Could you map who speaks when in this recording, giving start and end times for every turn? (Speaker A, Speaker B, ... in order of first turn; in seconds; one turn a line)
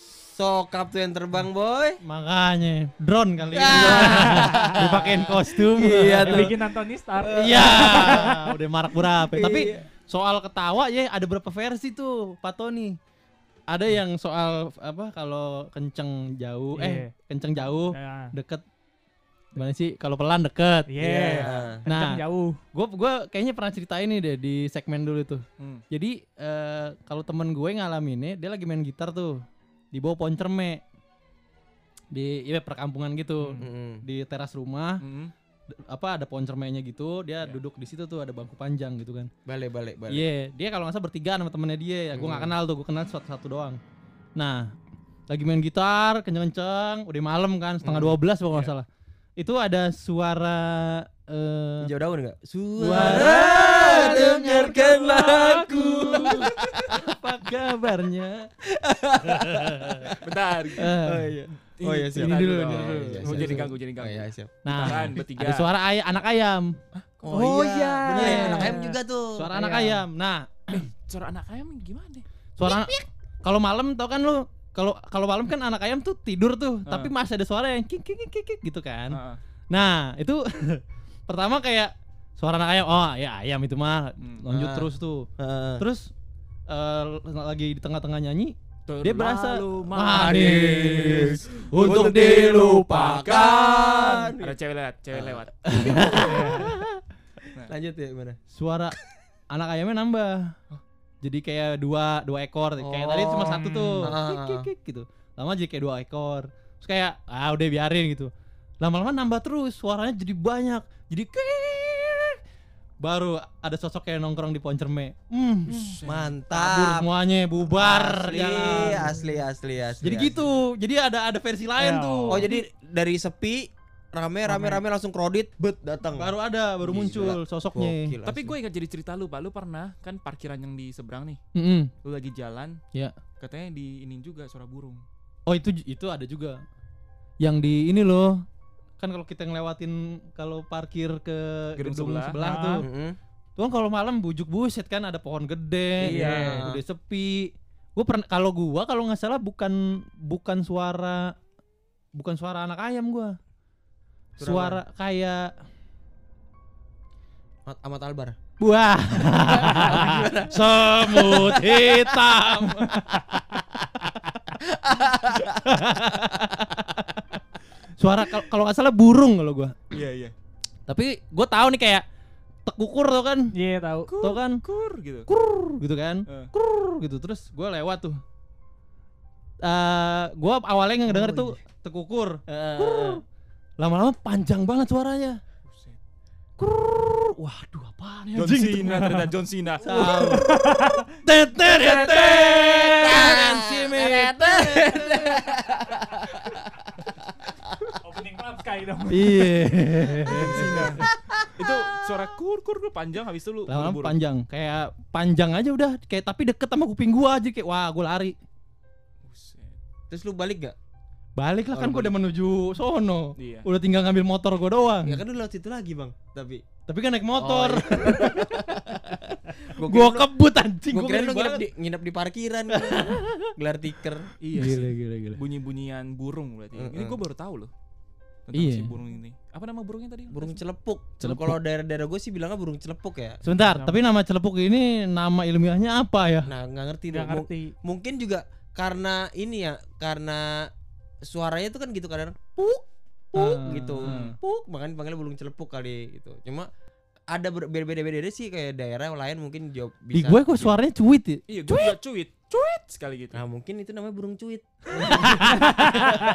Speaker A: 0.3-2.0
Speaker B: 2.0-6.5
Speaker A: 3.5-6.5
Speaker C: 3.6-5.3
Speaker C: 6.0-8.5
Speaker A: 7.2-8.3
Speaker B: 7.2-13.0
Speaker A: 9.3-9.8
Speaker B: 13.7-18.6
Speaker C: 16.8-17.1
Speaker C: 17.9-18.3
Speaker B: 19.5-20.9
Speaker C: 20.9-22.6
Speaker A: 21.0-21.8
Speaker D: 21.2-21.5
Speaker B: 21.9-22.2
Speaker B: 22.7-29.4
Speaker B: 29.9-30.8
Speaker B: 32.1-35.0
Speaker C: 33.4-33.6
Speaker A: 33.6-34.0
Speaker D: 35.0-35.3
Speaker B: 35.9-39.3
Speaker A: 39.5-40.2
Speaker B: 40.1-43.8
Speaker A: 42.1-42.5
Speaker B: 44.4-44.7
Speaker B: 45.3-48.9
Speaker A: 47.8-48.2
Speaker B: 49.4-51.9
Speaker A: 51.8-57.0
Speaker B: 52.8-58.5
Speaker A: 58.7-60.2
Speaker B: 59.3-60.1
Speaker D: 60.2-60.9
Speaker B: 60.8-61.3
Speaker A: 60.8-65.0
Speaker D: 61.8-65.7
Speaker B: 62.1-63.7
Speaker B: 64.6-66.7
Speaker A: 67.2-70.0
Speaker C: 67.3-69.0
Speaker B: 68.1-68.8
Speaker B: 69.3-70.9
Speaker D: 70.7-72.2
Speaker B: 72.6-79.2
Speaker D: 76.8-77.1
Speaker D: 79.1-79.4
Speaker B: 79.7-85.3
Speaker D: 84.2-84.4
Speaker A: 84.5-84.9
Speaker A: 85.4-85.8
Speaker B: 85.8-86.1
Speaker B: 86.7-93.2
Speaker D: 88.9-90.2
Speaker A: 89.6-94.5
Speaker D: 92.9-96.3
Speaker A: 95.1-96.6
Speaker B: 95.7-97.0
Speaker C: 96.2-96.7
Speaker A: 97.6-98.4
Speaker B: 98.5-99.0
Speaker B: 99.5-100.5
Speaker B: 101.2-108.3
Speaker A: 102.8-104.7
Speaker D: 103.5-104.1
Speaker B: 108.8-112.4
Speaker B: 113.0-115.8
Speaker D: 115.7-116.3
Speaker C: 115.7-116.0
Speaker A: 116.0-117.1
Speaker B: 116.5-119.1
Speaker A: 117.8-120.4
Speaker B: 120.0-122.6
Speaker C: 121.8-122.5
Speaker A: 122.3-128.6
Speaker B: 126.1-128.2
Speaker D: 128.2-131.4
Speaker B: 131.5-131.9
Speaker D: 132.0-132.8
Speaker D: 133.4-135.0
Speaker B: 135.5-136.6
Speaker B: 137.4-138.4
Speaker B: 139.0-142.9
Speaker D: 141.8-142.4
Speaker C: 142.4-142.8
Speaker A: 142.8-143.2
Speaker B: 143.6-151.3
Speaker A: 146.0-146.8
Speaker C: 146.1-146.7
Speaker B: 152.1-153.3
Speaker B: 154.4-155.5
Speaker A: 154.4-154.8
Speaker A: 157.7-158.3
Speaker B: 158.6-164.3
Speaker A: 159.4-162.2
Speaker A: 164.7-165.6
Speaker B: 165.6-167.4
Speaker B: 168.0-169.8
Speaker D: 169.9-170.3
Speaker B: 170.9-172.0
Speaker B: 172.7-173.5
Speaker C: 173.5-174.1
Speaker D: 174.1-175.3
Speaker B: 174.2-174.6
Speaker B: 175.3-178.2
Speaker B: 179.6-183.2
Speaker A: 181.1-181.6
Speaker A: 182.5-183.2
Speaker B: 183.8-185.3
Speaker D: 185.6-186.0
Speaker B: 186.6-195.4
Speaker D: 188.3-189.8
Speaker A: 189.8-190.2
Speaker C: 189.9-191.0
Speaker A: 191.7-196.6
Speaker C: 197.9-199.6
Speaker B: 199.1-201.1
Speaker D: 200.2-204.2
Speaker A: 201.2-201.5
Speaker B: 203.7-208.3
Speaker D: 209.2-209.8
Speaker A: 210.1-210.8
Speaker B: 211.4-215.2
Speaker A: 211.7-212.1
Speaker D: 213.4-213.7
Speaker A: 215.0-216.6
Speaker B: 216.9-221.6
Speaker A: 217.4-219.0
Speaker A: 219.6-220.3
Speaker A: 220.9-224.3
Speaker B: 222.7-223.5
Speaker D: 224.4-227.7
Speaker B: 224.5-225.4
Speaker A: 226.7-227.2
Speaker D: 228.4-230.6
Speaker B: 228.5-228.9
Speaker A: 230.3-233.4
Speaker B: 231.2-231.6
Speaker B: 233.4-236.5
Speaker C: 233.7-234.0
Speaker A: 236.5-240.7
Speaker C: 237.1-237.7
Speaker A: 241.2-246.7
Speaker B: 243.3-244.3
Speaker D: 244.0-244.3
Speaker A: 247.3-250.7
Speaker B: 250.1-252.0
Speaker D: 251.5-253.4
Speaker A: 253.3-255.3
Speaker B: 254.9-256.0
Speaker C: 255.5-256.2